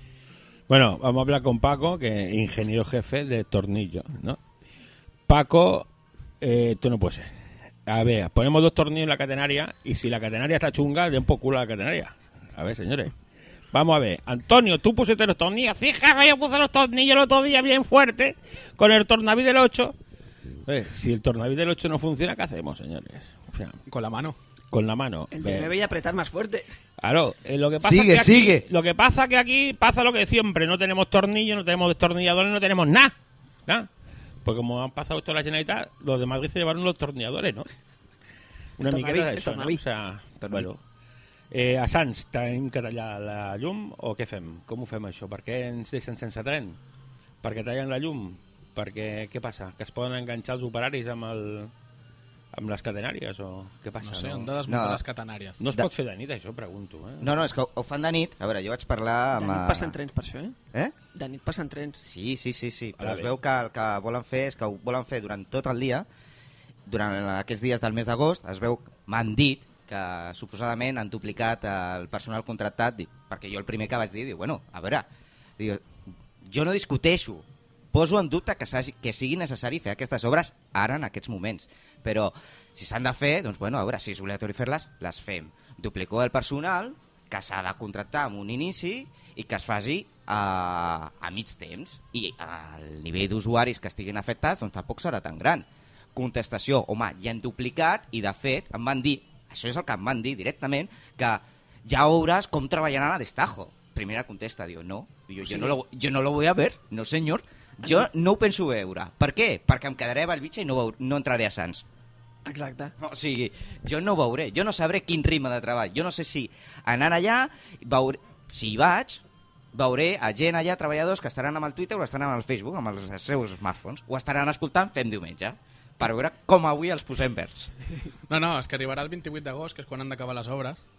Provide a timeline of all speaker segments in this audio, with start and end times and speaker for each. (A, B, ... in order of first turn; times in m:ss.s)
0:00.7-0:04.4 A
0:05.3-0:05.9 A
0:06.4-0:07.3 A
0:07.8-0:13.1 A
0:13.7-0:19.9 A
0:20.6-0:23.8 A
0:23.9-0:24.4 B
0:24.7-0:25.7 A
0:25.3-0:26.7 C
0:27.0-0:33.1 A
0:27.8-0:28.6 D
0:34.4-0:37.7 A
0:38.8-0:40.8 A
0:38.8-0:39.8 C
0:41.5-0:46.8 A
0:47.4-0:51.7 A
0:52.5-0:54.5 A
0:54.0-0:55.6 B
0:54.7-0:55.0 D
0:55.6-0:57.3 A
0:57.2-0:59.9 D
0:59.3-1:00.6 C
1:01.1-1:02.0 C
1:02.0-1:06.1 D
1:03.0-1:03.3 A
1:06.8-1:15.0 D
1:15.6-1:15.8 D
1:16.4-1:51.8 D
1:45.5-1:45.8 C
1:52.4-1:52.9 C
1:53.0-1:59.2 D
1:59.7-2:07.7 D
2:08.3-2:10.8 B